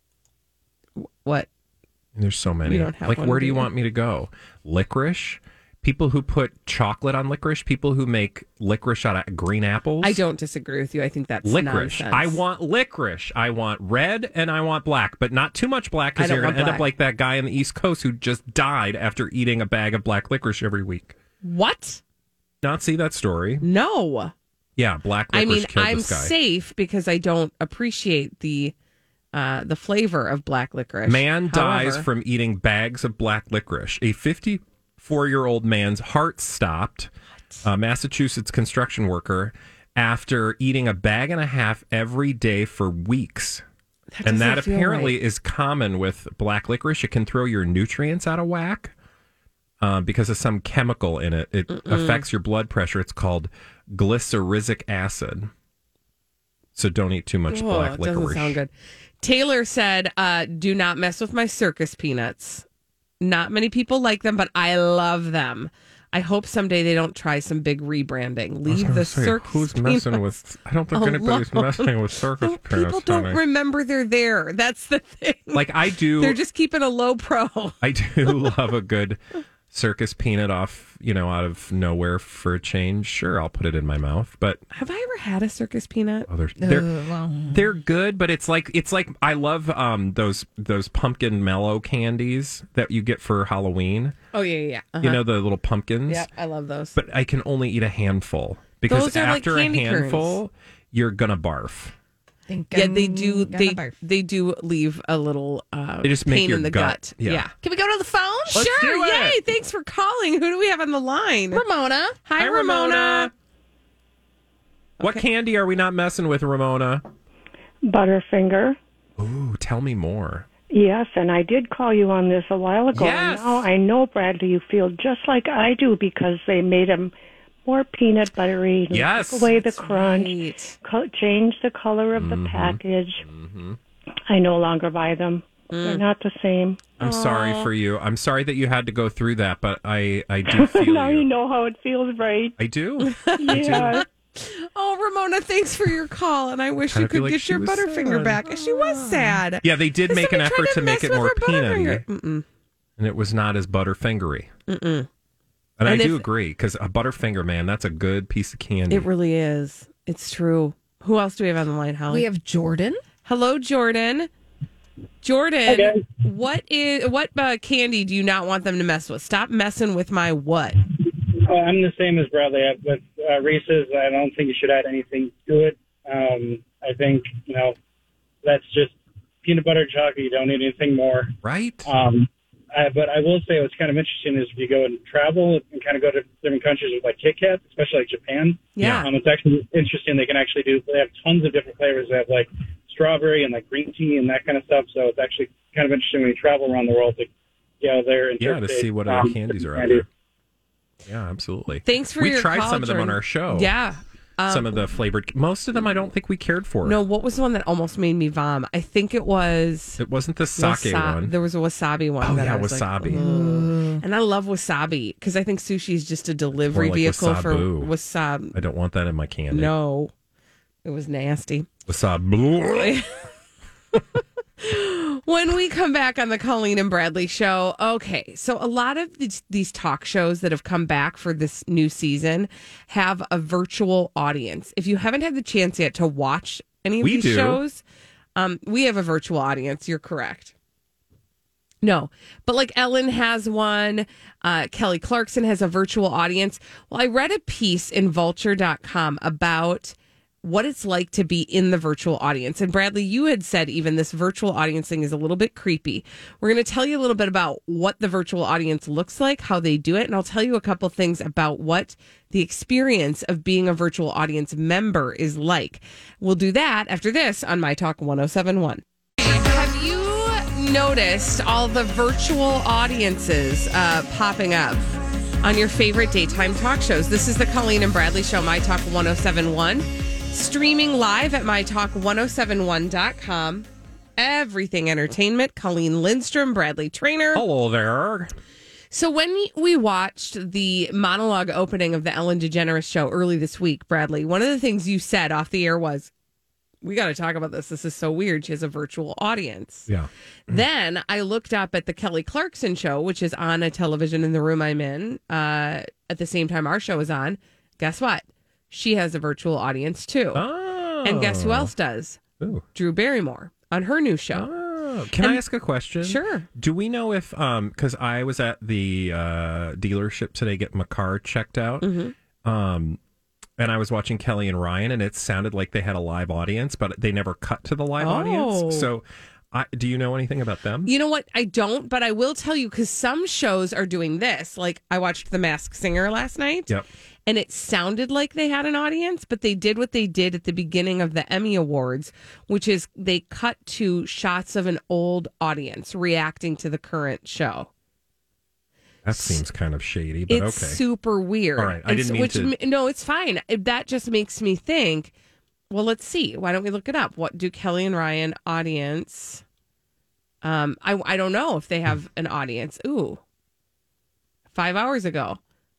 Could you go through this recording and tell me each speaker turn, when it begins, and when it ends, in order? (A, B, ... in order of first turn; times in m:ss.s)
0:01.0-0:01.5 A
0:02.2-0:10.2 B
0:02.6-0:03.7 A
0:10.0-0:12.4 A
0:11.4-0:21.1 B
0:16.2-0:16.9 A
0:21.4-0:22.0 A
0:22.6-0:23.6 B
0:23.6-0:24.3 A
0:24.8-0:26.3 B
0:25.3-0:28.7 A
0:29.3-0:32.0 A
0:31.0-0:37.1 B
0:37.6-0:43.6 B
0:44.1-0:45.2 A
0:44.2-0:48.9 B
0:49.8-0:55.5 B
0:51.7-0:52.2 A
0:56.7-0:58.6 B
0:57.5-1:02.6 A
1:03.2-1:10.2 A
1:08.7-1:13.4 B
1:10.9-1:18.5 A
1:15.5-1:16.4 B
1:17.8-1:24.6 B
1:24.7-1:26.3 A
1:26.3-1:26.9 B
1:26.6-1:27.7 C
1:27.5-1:34.2 B
1:34.3-1:35.2 A
1:35.0-1:36.3 B
1:36.1-1:37.0 A
1:36.9-1:41.9 B
1:38.9-1:40.4 A
1:42.5-1:44.0 C
1:42.7-1:47.5 A
1:46.0-1:47.5 B
1:47.6-1:48.7 C
1:48.5-1:49.4 B
1:48.5-1:51.6 A
1:51.5-1:52.2 C
1:52.2-1:53.3 A
1:52.4-1:53.3 B
1:55.0-1:57.0 B
1:57.8-1:58.8 D
1:59.2-2:00.5 B
2:00.7-2:07.1 D
2:02.9-2:03.7 B
2:07.6-2:13.2 D
2:08.9-2:09.6 B
2:09.8-2:10.8 A
2:12.1-2:13.8 B
2:14.3-2:16.9 D
2:15.7-2:16.0 A
2:17.0-2:17.7 A
2:17.0-2:21.3 B
2:20.5-2:22.6 D
2:22.6-2:24.0 B
2:23.0-2:32.4 A
2:23.4-2:24.0 D
2:26.9-2:32.0 B
2:33.0-2:34.5 B
2:34.7-2:35.1 A
2:35.8-2:39.1 B
2:35.8-2:36.2 A
2:38.9-2:42.3 A
2:42.1-2:43.0 C
2:43.2-2:44.3 A
2:45.2-2:50.8 A
2:45.7-2:46.0 E
2:51.4-2:57.8 E
2:58.4-3:01.3 E
3:01.4-3:01.9 B
3:01.8-3:17.3 E
3:08.7-3:09.1 A
3:08.8-3:09.1 B
3:17.8-3:20.0 E
3:18.4-3:20.0 B
3:21.0-3:23.7 B
3:21.8-3:24.9 A
3:24.5-3:27.0 B
3:26.8-3:30.0 A
3:30.0-3:31.3 B
3:30.6-3:38.6 A
3:32.2-3:33.2 B
3:33.0-3:34.0 C
3:36.7-3:37.9 B
3:38.5-3:39.7 B
3:39.5-3:40.1 A
3:40.8-3:41.7 A
3:41.9-3:43.0 B
3:42.7-3:43.3 A
3:44.6-3:57.8 A
3:57.0-3:57.6 B
3:58.4-4:00.5 A
4:01.8-4:43.6 A
4:44.2-4:47.4 A
4:47.3-4:48.3 B
4:48.9-4:56.1 A
4:56.8-4:59.9 A
4:59.9-5:00.6 B
5:00.5-5:10.4 A
5:10.3-5:11.7 B
5:11.0-5:12.2 A
5:12.7-5:14.5 A
5:14.3-5:23.0 B
5:15.2-5:15.4 A
5:16.0-5:16.5 A
5:21.8-5:22.1 A
5:23.6-5:30.9 B
5:28.0-5:28.9 A
5:30.8-5:36.7 A
5:37.3-5:47.7 A
5:49.0-5:50.8 B
5:49.1-5:49.4 A
5:50.3-5:55.1 A
5:51.6-5:52.5 B
5:55.7-5:59.4 A
6:00.4-6:03.2 A
6:04.5-6:05.4 A